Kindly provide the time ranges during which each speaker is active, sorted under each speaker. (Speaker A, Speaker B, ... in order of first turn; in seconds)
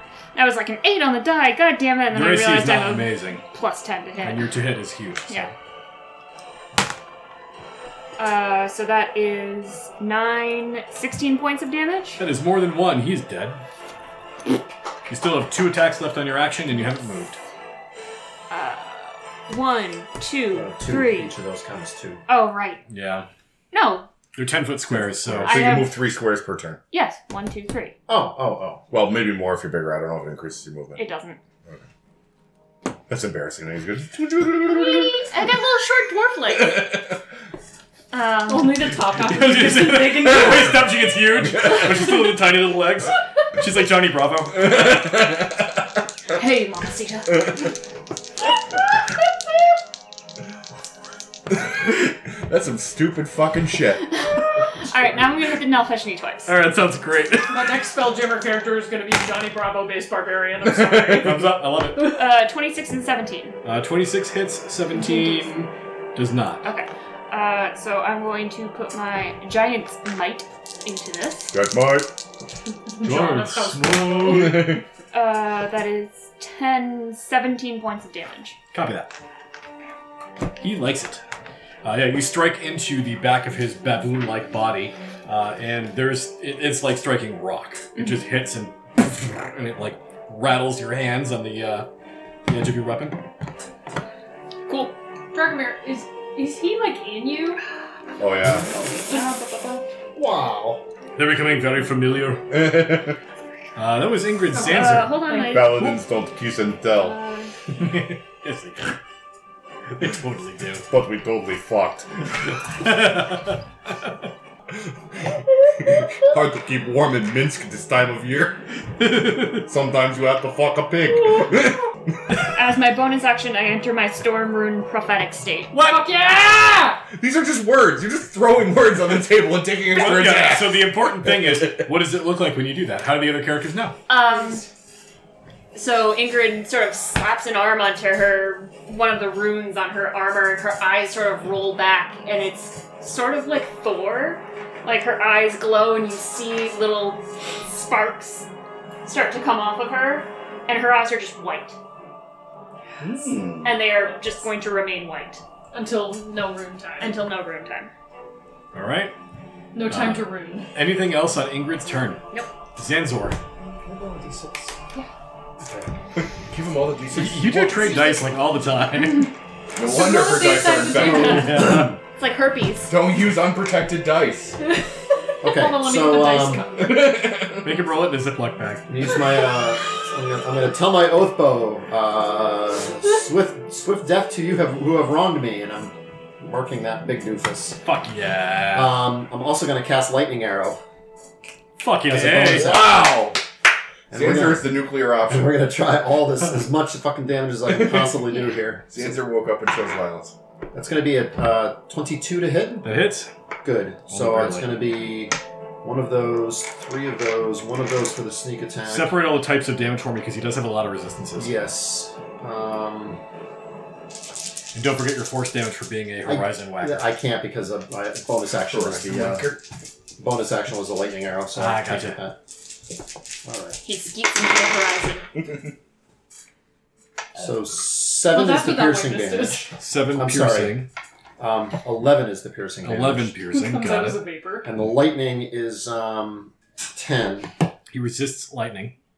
Speaker A: 0.3-4.5, 8.2-12.2, 18.5-21.3, 22.3-22.8, 23.7-24.1, 25.4-26.1, 26.9-27.9, 31.0-31.4, 34.6-36.9, 38.1-39.0, 46.3-47.7, 54.1-56.5, 62.1-63.6, 64.9-65.5, 66.6-71.5, 74.4-78.6, 94.7-95.0, 99.1-99.8, 104.6-106.0, 106.9-107.5, 122.4-125.7, 134.1-134.6, 135.7-148.5, 149.0-151.8, 153.6-155.4, 157.0-157.9, 172.1-172.9, 223.8-225.3
Speaker B: 2.1-3.4, 4.2-5.5, 12.2-13.6, 15.1-17.4, 22.9-23.3, 24.3-25.8, 39.1-45.1, 56.5-57.9, 61.2-62.2, 63.6-66.6, 73.0-74.8, 78.7-79.1, 80.6-81.2, 81.8-91.9, 92.5-93.2, 101.2-102.5, 103.8-105.2, 107.7-109.0, 109.9-110.9, 112.6-113.9, 119.0-119.7, 125.7-126.1, 129.9-133.9, 153.0-153.4, 158.7-159.1, 159.8-162.2, 162.7-163.4, 167.1-169.3, 171.1-172.0, 177.6-178.9, 187.8-189.0, 191.8-192.7, 202.8-203.3, 204.1-204.8, 208.9-211.6, 214.7-217.1, 221.5-222.2, 229.8-230.9, 232.8-234.3, 237.9-238.9
Speaker C: 20.5-22.2, 28.1-28.8, 100.1-100.8, 165.6-165.9, 171.0-171.3, 175.4-176.7, 178.9-187.8, 188.7-190.8, 192.1-193.3, 194.1-199.1, 200.7-202.8, 203.6-209.1, 211.3-213.2, 216.2-219.6, 220.2-222.4, 223.4-223.8, 227.3-230.8, 231.4-233.4, 234.6-237.5
Speaker D: 24.9-26.8, 28.9-31.0, 33.1-35.4, 36.5-37.2, 41.5-41.9, 44.6-45.6, 51.5-54.0, 60.6-61.5, 71.5-72.1, 74.3-74.8, 98.2-98.7, 102.5-103.2, 105.5-107.2, 110.9-112.2, 115.1-118.6, 119.6-122.0, 127.1-131.9, 153.0-153.8, 166.2-168.2, 169.8-171.6, 172.9-174.6, 176.8-177.7, 192.5-193.4, 194.1-195.5, 197.7-198.1, 198.9-200.3, 218.7-219.6
Speaker E: 38.5-40.8, 57.5-61.4, 73.0-74.3, 95.3-97.6, 99.0-99.3, 104.5-105.8, 125.8-127.0, 134.3-134.6, 155.7-157.2, 159.7-160.7, 169.8-171.6, 174.6-177.1, 228.2-229.7, 233.5-234.7